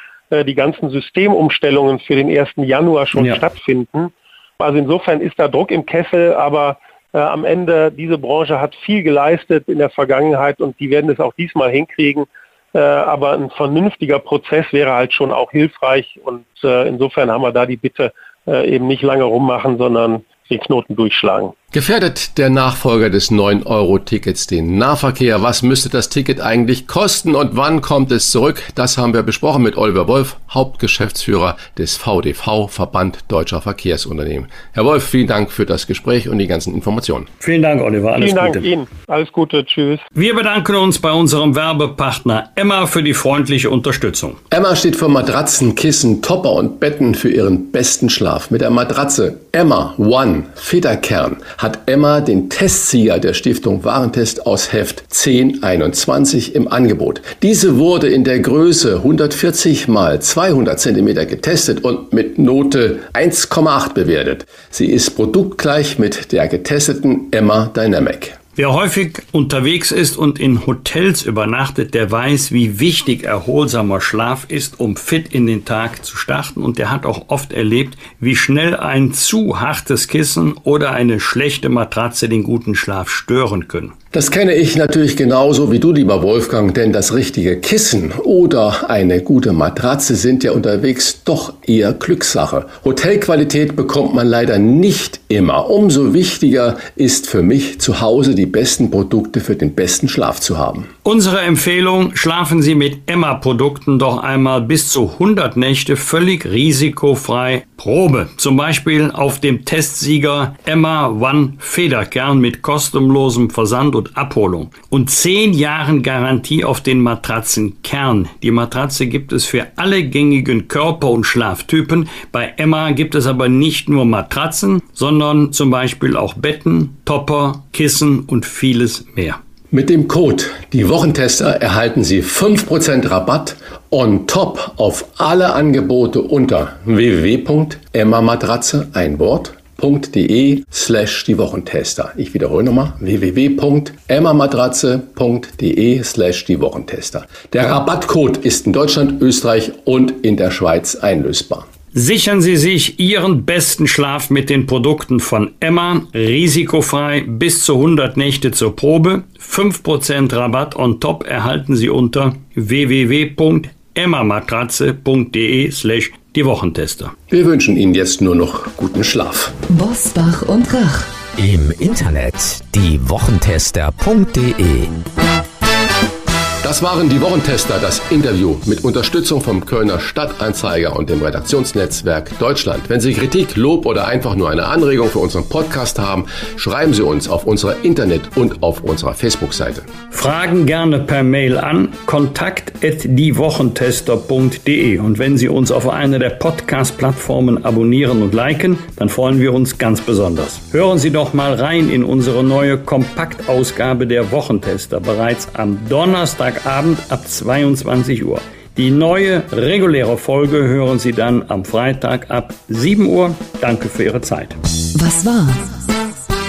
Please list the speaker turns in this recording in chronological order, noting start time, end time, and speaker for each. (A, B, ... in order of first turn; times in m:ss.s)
0:00.3-0:21.5 A
0:21.7-0:37.3 B
0:37.4-0:38.7 C
0:38.2-0:40.0 A
0:40.2-0:44.4 C
0:44.5-1:08.4 B
1:08.6-1:23.9 C
1:24.1-1:40.9 B
1:41.0-2:09.4 C
2:09.7-2:31.7 B
2:31.9-2:47.1 C
2:47.3-2:49.6 B
2:49.7-2:51.1 D
2:51.4-2:54.9 E
2:56.6-3:09.9 B
3:10.1-3:34.6 C
3:34.9-3:35.9 D